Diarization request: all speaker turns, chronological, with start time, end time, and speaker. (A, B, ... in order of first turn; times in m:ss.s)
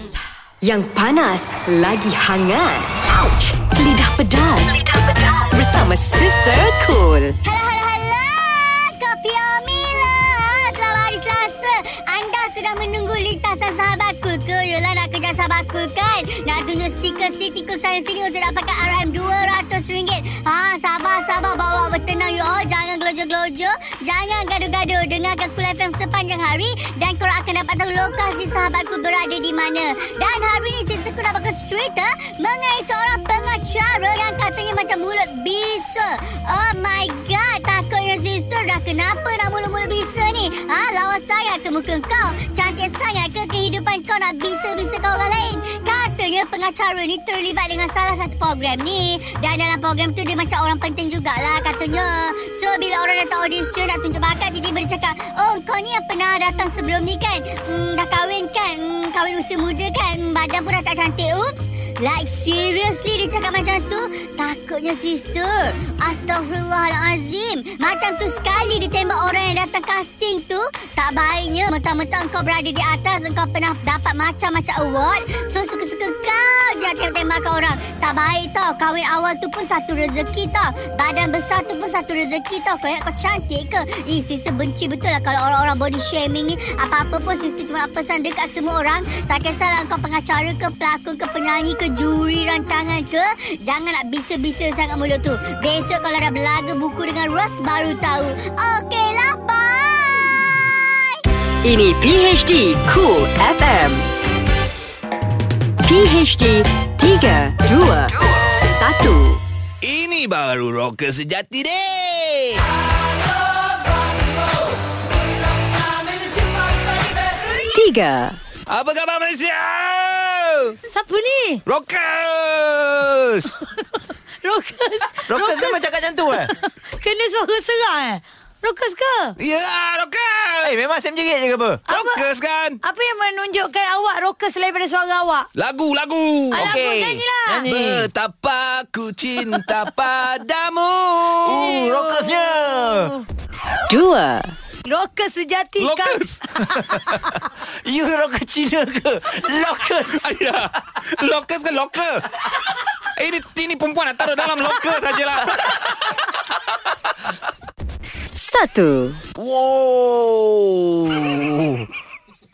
0:00.6-0:07.4 A
0:07.4-1:41.2 B
1:41.6-1:44.1 A
1:45.8-1:49.4 A
1:49.8-1:52.6 C
1:57.7-1:58.4 A
1:58.7-2:00.8 C
2:00.9-2:01.6 D
2:01.7-2:03.6 C
2:04.4-2:05.8 D
2:05.3-2:06.5 E
2:06.3-2:09.4 D
2:09.4-2:10.7 C
2:10.6-2:11.8 E
2:11.9-2:12.2 D
2:11.9-2:12.8 C
2:12.8-2:15.5 D
2:15.6-2:16.8 C
2:16.5-2:18.1 E
2:16.5-2:17.7 D
2:17.7-2:21.5 C
2:21.4-2:23.1 E
2:21.5-2:23.2 D
2:23.9-2:24.5 A
2:24.8-2:27.1 D
2:25.8-2:26.4 C
2:26.8-2:27.3 E
2:27.8-2:30.3 E
2:30.2-2:32.3 C
2:33.2-2:36.4 C
2:38.4-2:39.2 A
2:39.4-2:41.9 E